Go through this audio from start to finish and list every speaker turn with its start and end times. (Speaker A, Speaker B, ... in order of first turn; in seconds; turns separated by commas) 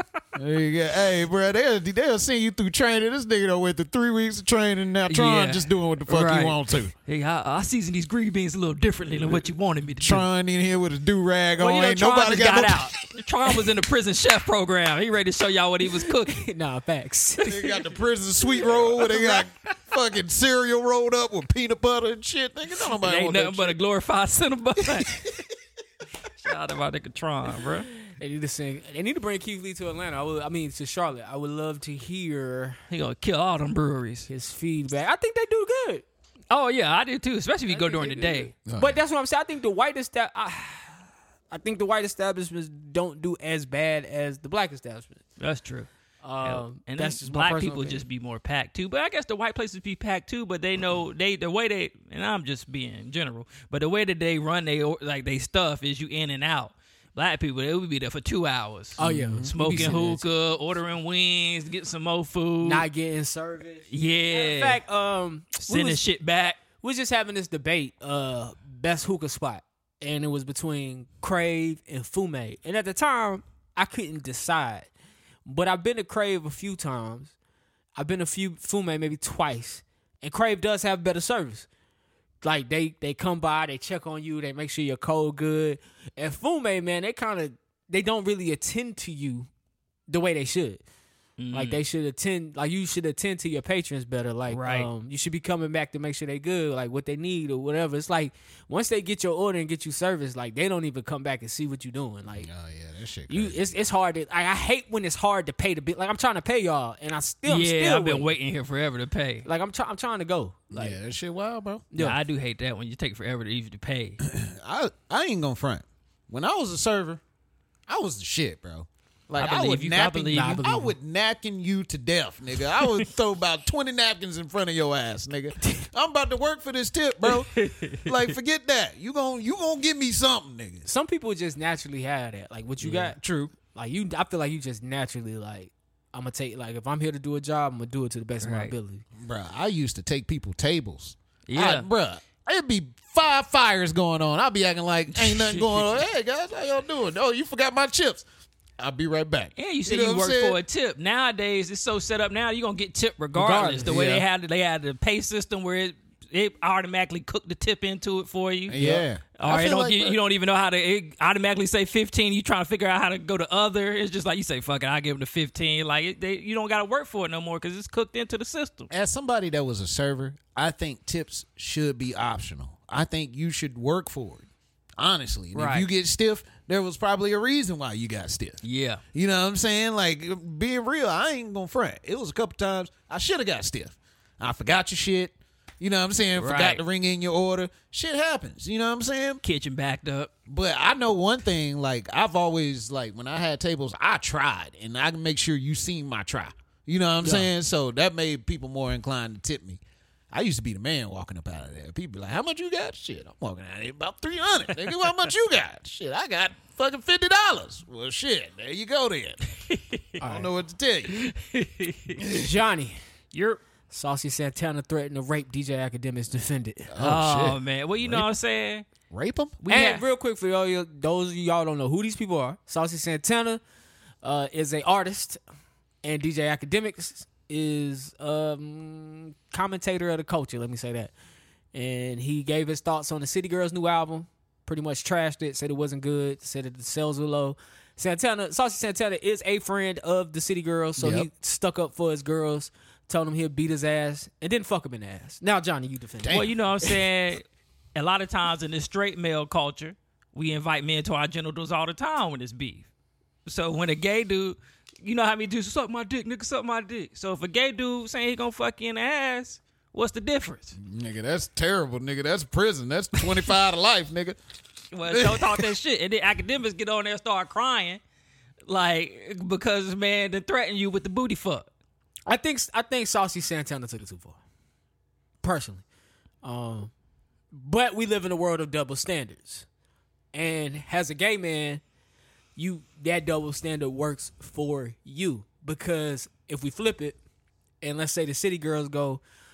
Speaker A: 0.4-6.9, Speaker B: 5.1-10.3, Speaker A: 10.0-12.9, Speaker B: 11.6-16.4, Speaker C: 16.0-17.7, Speaker A: 17.4-23.8, Speaker C: 19.0-19.4, Speaker B: 23.0-25.3, Speaker B: 26.4-27.9, Speaker C: 28.2-32.8, Speaker B: 32.9-34.3, Speaker C: 34.3-36.0, Speaker B: 36.5-38.5, Speaker C: 37.7-45.2, Speaker A: 38.7-39.0, Speaker B: 45.4-45.9, Speaker C: 46.2-48.0, Speaker B: 46.4-62.9, Speaker C: 59.0-60.2, Speaker A: 59.0-60.0, Speaker C: 62.6-66.0, Speaker B: 63.9-64.8, Speaker B: 65.6-66.6, Speaker C: 66.8-74.9, Speaker C: 75.5-77.3, Speaker C: 78.0-81.7, Speaker C: 82.4-89.5, Speaker C: 90.1-90.8, Speaker B: 91.4-91.8, Speaker C: 91.5-102.5, Speaker B: 94.5-94.9, Speaker A: 102.4-103.6, Speaker C: 103.3-108.3, Speaker B: 107.5-109.5, Speaker C: 109.5-111.0, Speaker A: 110.7-111.8, Speaker B: 112.0-114.2, Speaker A: 114.2-117.2, Speaker A: 117.9-130.9, Speaker B: 119.4-120.6, Speaker C: 120.1-120.9, Speaker B: 127.3-128.2, Speaker C: 130.9-139.0, Speaker B: 132.8-133.2, Speaker B: 138.4-138.7, Speaker A: 139.2-148.3, Speaker B: 141.5-141.9, Speaker B: 145.1-146.0, Speaker A: 148.8-150.6, Speaker B: 149.6-158.8, Speaker C: 153.3-154.2, Speaker A: 153.9-154.2, Speaker A: 158.7-160.2, Speaker B: 159.4-168.9, Speaker A: 168.9-174.5, Speaker A: 175.0-178.6, Speaker B: 175.6-175.8, Speaker B: 178.6-179.0, Speaker A: 179.1-189.4, Speaker B: 186.4-186.8, Speaker B: 189.4-190.3, Speaker A: 190.5-199.8, Speaker A: 200.3-209.4, Speaker C: 210.2-210.5, Speaker A: 210.2-211.3, Speaker B: 211.2-212.1, Speaker C: 212.2-216.9, Speaker A: 212.2-212.5, Speaker A: 216.9-218.3, Speaker B: 217.0-218.9, Speaker A: 219.1-219.6, Speaker B: 219.6-220.0, Speaker C: 219.7-223.6, Speaker C: 224.2-225.4, Speaker C: 226.0-231.1, Speaker C: 231.7-246.9, Speaker A: 241.0-241.3, Speaker A: 246.2-246.6, Speaker B: 246.3-247.4, Speaker B: 248.0-252.9, Speaker B: 253.5-260.8, Speaker A: 260.8-264.4, Speaker B: 264.9-268.0, Speaker A: 265.1-265.7, Speaker B: 268.7-271.7, Speaker C: 272.3-274.4, Speaker C: 275.4-275.8, Speaker C: 276.4-276.9, Speaker C: 277.5-279.7, Speaker C: 280.3-281.8, Speaker C: 282.6-287.2, Speaker C: 287.8-289.2